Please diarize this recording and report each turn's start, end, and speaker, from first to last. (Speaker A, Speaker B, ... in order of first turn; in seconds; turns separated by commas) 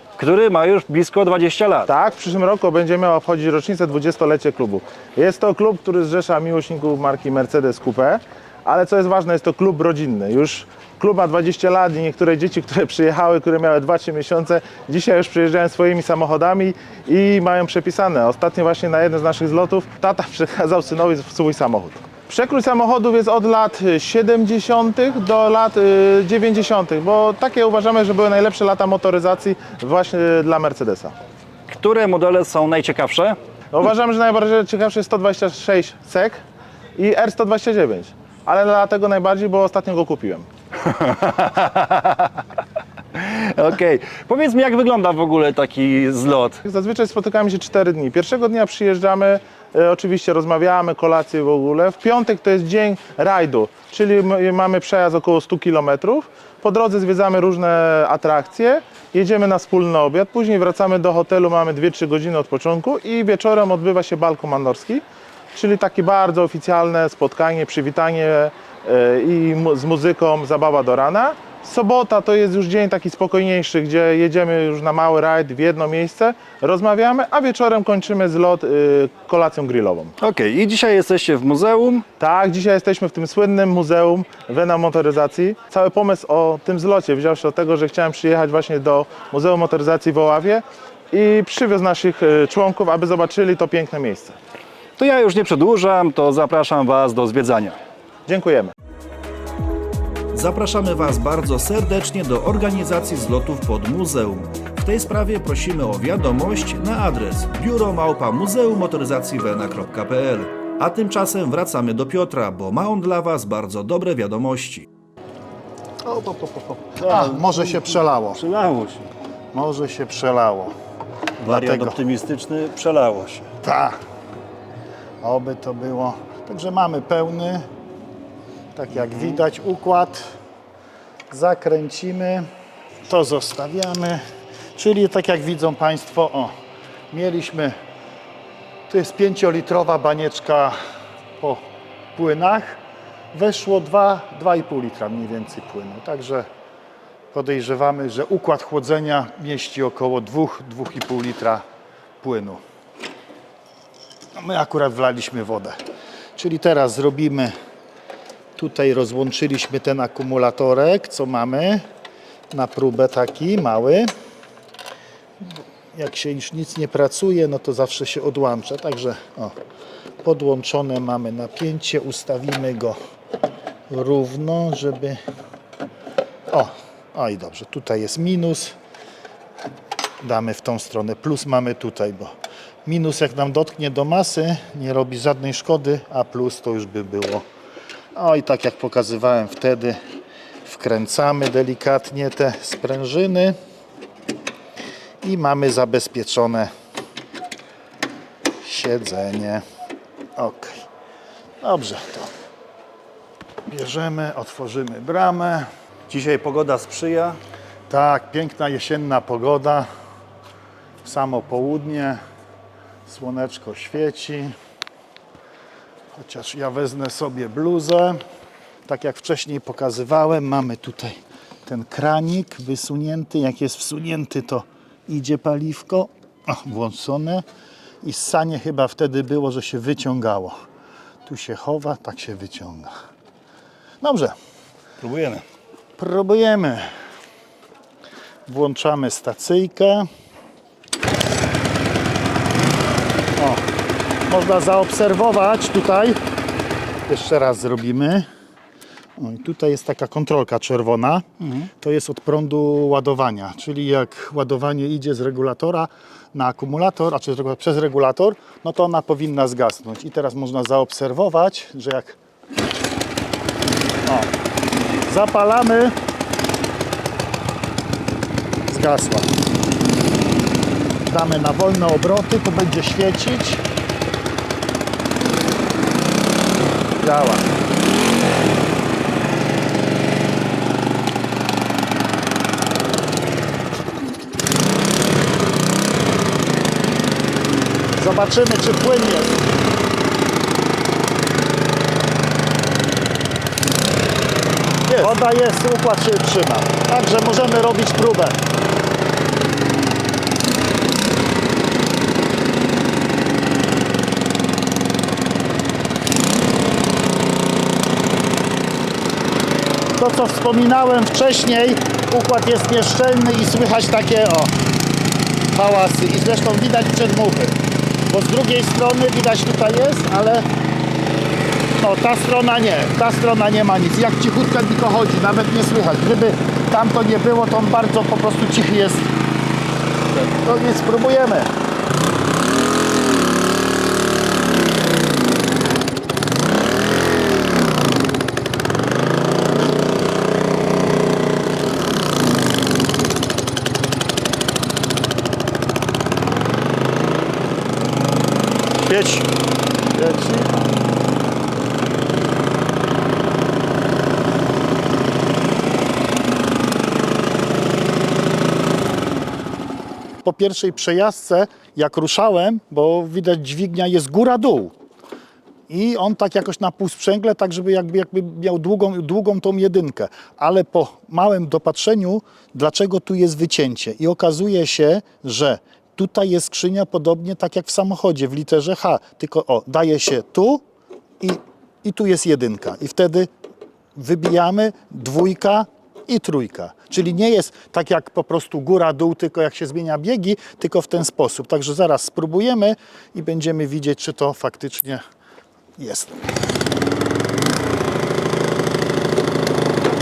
Speaker A: 0.2-1.9, Speaker B: 1.9-31.1, Speaker A: 31.7-33.4, Speaker B: 33.7-36.4, Speaker B: 37.0-40.5, Speaker A: 40.8-42.4, Speaker A: 43.1-46.6, Speaker B: 46.6-65.0, Speaker B: 65.5-80.1, Speaker A: 80.2-82.0, Speaker B: 82.2-94.3, Speaker A: 95.0-97.8, Speaker B: 98.3-98.7, Speaker C: 100.3-114.8, Speaker A: 116.1-119.1, Speaker D: 117.0-118.4, Speaker D: 119.5-120.7, Speaker A: 121.4-123.5, Speaker D: 121.4-122.0, Speaker D: 123.6-124.0, Speaker D: 125.2-127.7, Speaker D: 128.7-130.3, Speaker D: 131.3-132.5, Speaker D: 133.1-134.2, Speaker D: 134.8-136.5, Speaker D: 137.1-137.8, Speaker D: 138.9-140.8, Speaker D: 141.4-141.6, Speaker D: 142.1-142.8, Speaker D: 143.3-146.5, Speaker D: 147.3-151.6, Speaker D: 152.2-152.6, Speaker D: 154.3-155.8, Speaker D: 156.4-157.5, Speaker D: 158.6-161.8, Speaker D: 162.5-164.1, Speaker D: 165.4-169.5, Speaker D: 170.2-173.0, Speaker D: 173.9-175.2, Speaker D: 176.5-178.7, Speaker D: 180.2-182.3, Speaker D: 182.8-187.4, Speaker D: 188.1-190.0, Speaker D: 190.6-193.6, Speaker D: 195.2-196.7, Speaker D: 198.6-199.6, Speaker D: 200.4-200.8, Speaker D: 201.6-202.3, Speaker D: 203.7-205.7, Speaker A: 206.1-207.4, Speaker D: 207.9-209.9, Speaker D: 211.0-212.2, Speaker D: 213.1-214.5, Speaker D: 216.1-218.2, Speaker D: 218.9-227.4, Speaker D: 228.0-230.6, Speaker D: 231.2-232.9, Speaker D: 234.0-234.3, Speaker A: 235.0-235.4, Speaker D: 236.0-236.9, Speaker D: 238.5-240.1, Speaker D: 243.4-243.6, Speaker D: 244.3-246.2, Speaker D: 247.1-248.3, Speaker D: 249.2-262.2, Speaker D: 265.0-265.9, Speaker D: 268.7-269.3, Speaker D: 271.1-273.6, Speaker D: 277.0-277.5, Speaker D: 288.0-289.5, Speaker D: 295.0-298.4, Speaker D: 310.0-314.5, Speaker D: 315.5-317.6, Speaker D: 318.1-320.5, Speaker D: 321.8-329.1, Speaker D: 330.4-331.5, Speaker A: 348.9-349.3, Speaker D: 350.0-350.4, Speaker D: 360.2-364.7, Speaker D: 365.7-380.6, Speaker D: 381.2-383.3, Speaker D: 383.9-395.0, Speaker D: 395.8-396.2